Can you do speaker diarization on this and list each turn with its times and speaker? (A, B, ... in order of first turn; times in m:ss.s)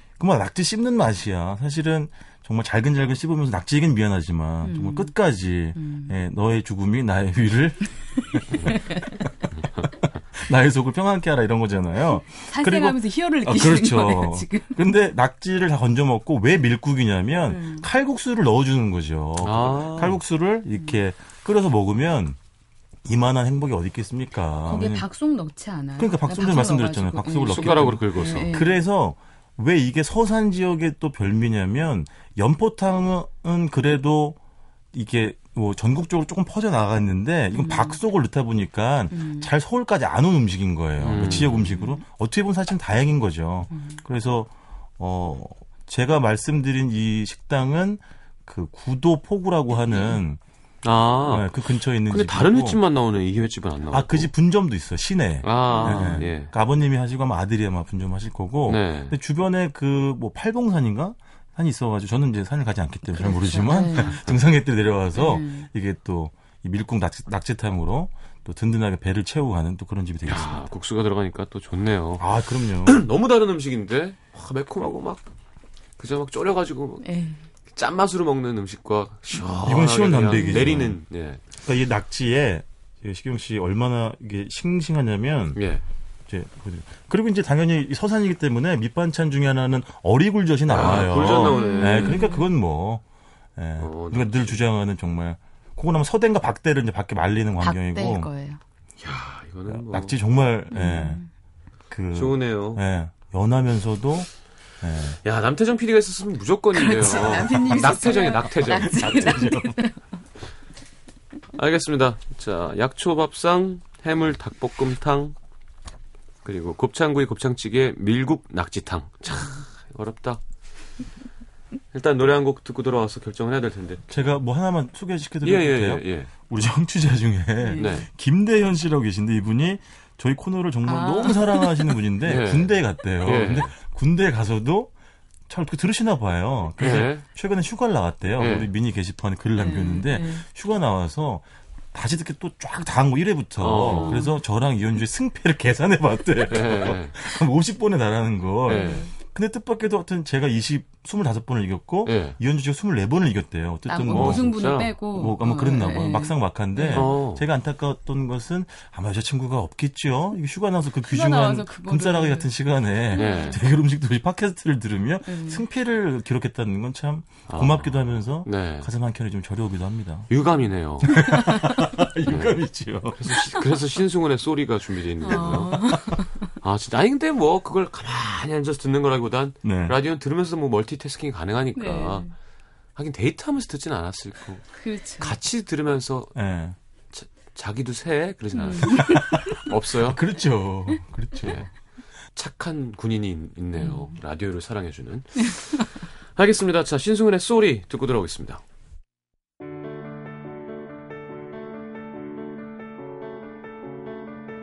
0:00.2-0:09.3 A
0:04.6-0:05.1 B
0:05.7-0:06.2 B
0:08.4-0:09.2 B
0:09.5-0:09.9 C
0:10.3-0:22.4 A
0:12.3-0:14.9 B
0:17.5-0:17.8 B
0:19.4-0:20.2 C
0:23.0-0:25.0 A
0:24.6-0:28.8 B
0:26.0-0:34.4 A
0:27.5-0:28.5 C
0:34.9-0:50.4 A
0:37.5-0:38.0 B
0:39.1-0:39.5 B
0:41.0-0:41.7 C
0:41.6-0:42.0 B
0:43.7-0:44.0 B
0:50.8-0:54.3 C
0:51.3-0:52.8 A
0:53.9-1:10.6 A
0:55.4-0:56.5 C
0:55.7-0:56.3 B
0:58.7-0:59.1 C
1:03.1-1:04.2 B
1:05.1-1:05.7 B
1:10.2-1:15.3 C
1:12.2-1:13.0 A
1:16.0-1:17.1 C
1:17.0-1:17.4 B
1:17.6-1:21.4 C
1:19.6-1:21.0 A
1:20.4-1:20.7 B
1:21.6-1:25.6 A
1:25.5-1:25.8 C
1:26.3-1:33.0 A
1:30.7-1:32.2 C
1:31.2-1:32.5 B
1:33.6-1:38.3 A
1:33.8-1:34.6 C
1:37.6-1:38.6 B
1:39.0-1:40.2 C
1:39.7-1:41.2 A
1:40.7-1:41.3 B
1:41.9-1:45.2 A
1:42.1-1:42.8 C
1:45.2-1:49.5 C
1:46.7-1:50.0 B
1:48.8-1:49.8 A
1:51.5-1:55.3 C
1:56.4-2:00.4 C
2:01.9-2:04.0 C
2:04.1-2:14.9 A
2:05.4-2:06.3 C
2:07.6-2:08.0 B
2:07.8-2:08.1 C
2:10.8-2:12.0 B
2:12.2-2:13.7 C
2:15.5-2:50.3 A
2:16.8-2:17.2 C
2:18.4-2:18.7 C
2:19.6-2:20.4 B
2:23.6-2:24.2 C
2:23.9-2:24.4 B
2:26.4-2:27.1 C
2:28.7-2:29.0 C
2:28.7-2:29.1 B
2:32.0-2:32.4 C
2:33.9-2:37.1 B
2:34.1-2:35.0 C
2:36.9-2:37.4 C
2:41.0-2:42.5 B
2:43.1-2:43.6 B
2:43.2-2:43.6 C
2:45.2-2:45.6 B
2:47.5-2:48.9 C
2:50.3-2:51.3 C
2:51.0-2:53.6 A
2:51.1-2:51.9 B
2:52.3-2:52.6 C
2:53.2-3:02.3 C
2:55.2-2:56.5 B
2:55.7-2:56.0 A
2:59.6-3:00.0 A
3:01.7-3:02.3 B
3:03.0-3:06.3 C
3:04.8-3:05.4 B
3:06.3-3:06.8 A
3:07.1-3:10.2 C
3:08.5-3:09.6 B
3:09.0-3:11.6 A
3:11.4-3:11.7 C
3:12.3-3:18.6 C
3:13.8-3:14.1 B